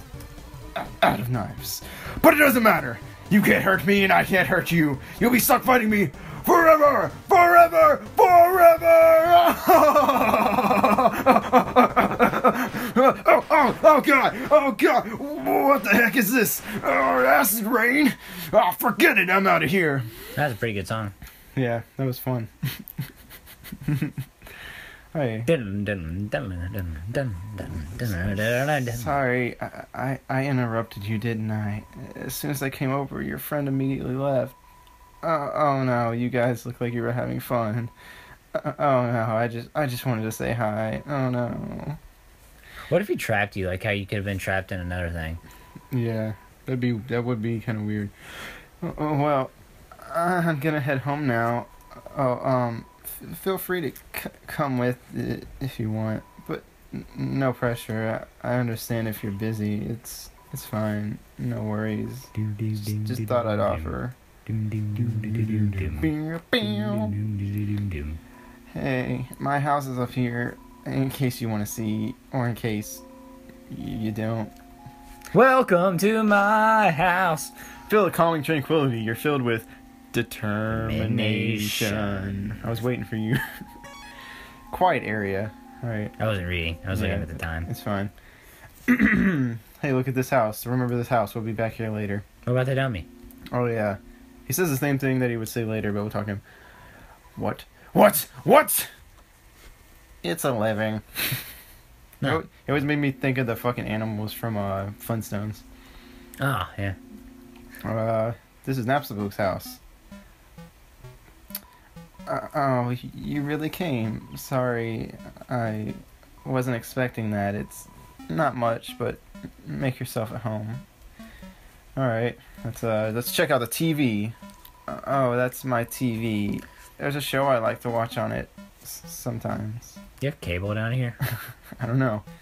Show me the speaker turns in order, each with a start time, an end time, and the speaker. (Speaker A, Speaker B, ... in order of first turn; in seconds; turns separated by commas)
Speaker A: 0.8-20.1, Speaker B: 20.4-21.1, Speaker A: 21.6-22.5, Speaker A: 23.9-24.1, Speaker A: 25.1-25.5, Speaker B: 25.4-29.1, Speaker A: 28.8-34.5, Speaker A: 35.2-37.9, Speaker A: 38.5-42.0, Speaker B: 42.9-45.4, Speaker A: 45.9-48.1, Speaker A: 48.8-64.2, Speaker B: 62.3-63.9, Speaker B: 64.5-68.2, Speaker A: 65.0-67.2, Speaker A: 68.7-73.0, Speaker A: 73.7-74.5, Speaker B: 75.3-77.5, Speaker A: 77.9-83.4, Speaker B: 80.7-82.6, Speaker A: 84.7-86.1, Speaker B: 86.2-87.7, Speaker A: 86.9-88.1, Speaker A: 88.9-92.2, Speaker B: 92.5-93.1, Speaker A: 93.5-96.4, Speaker A: 97.3-98.9, Speaker A: 100.2-101.4, Speaker A: 102.2-105.6, Speaker B: 106.4-107.0, Speaker A: 107.8-109.8, Speaker A: 112.3-120.8, Speaker A: 122.0-124.3, Speaker A: 124.9-130.0, Speaker B: 130.2-131.2, Speaker A: 131.8-132.2